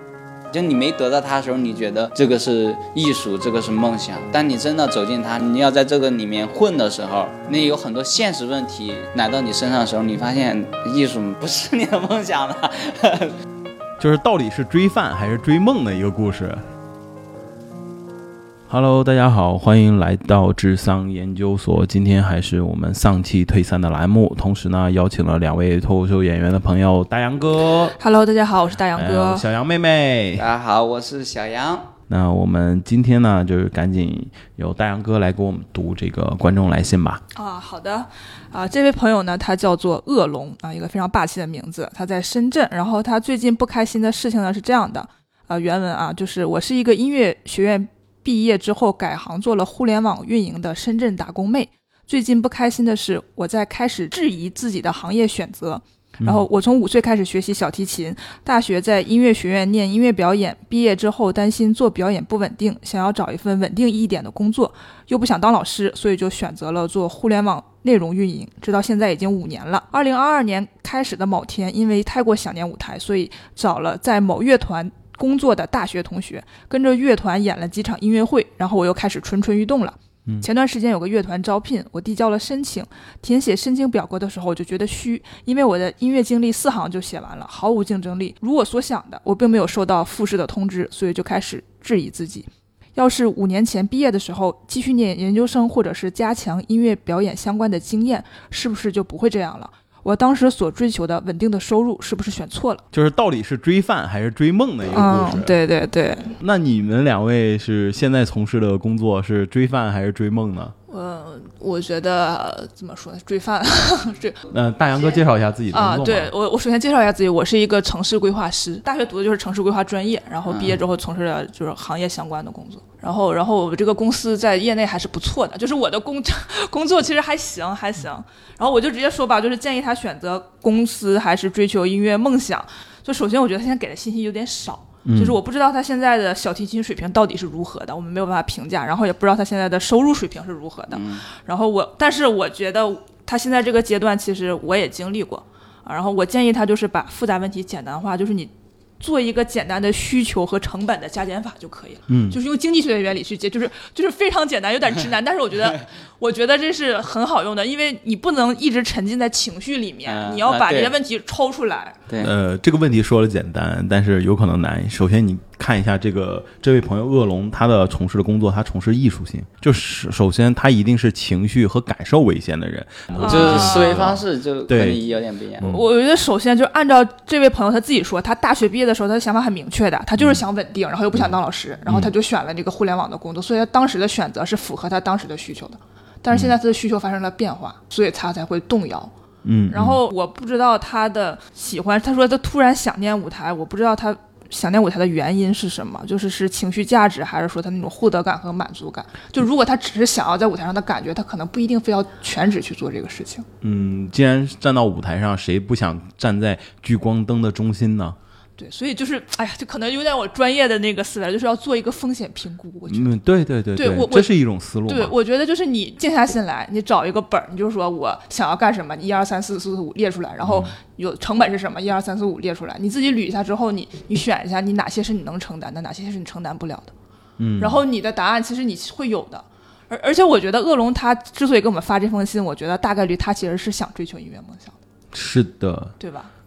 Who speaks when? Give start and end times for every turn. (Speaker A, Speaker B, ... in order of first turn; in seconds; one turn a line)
Speaker A: 0.5-13.3
Speaker B: 14.0-16.6
Speaker B: 18.7-27.9
Speaker C: 28.0-29.4
Speaker B: 28.9-30.4
Speaker A: 30.4-31.9
Speaker B: 32.1-37.2
Speaker C: 37.3-102.8
Speaker B: 102.9-105.6
Speaker C: 104.9-106.3
Speaker B: 106.4-110.7
Speaker C: 110.9-114.4
Speaker B: 114.5-116.3
Speaker C: 115.7-162.0
Speaker A: 120.5-120.8
Speaker B: 135.0-135.4
Speaker A: 140.9-141.2
Speaker B: 152.1-152.4
Speaker A: 160.0-161.0
Speaker A: 162.1-162.3
Speaker B: 162.2-175.0
Speaker A: 173.2-175.7
Speaker C: 173.2-174.0
Speaker C: 175.6-189.1
Speaker B: 181.9-182.1
Speaker B: 186.3-186.6
Speaker B: 189.4-190.0
Speaker C: 189.7-203.4
Speaker B: 203.6-208.2
Speaker C: 208.6-213.1
Speaker B: 212.9-215.1
Speaker C: 213.7-214.3
Speaker C: 214.9-226.9
Speaker B: 220.4-220.7
Speaker B: 227.4-227.8
Speaker C: 227.6-234.8
Speaker B: 235.1-235.9
Speaker C: 236.0-236.3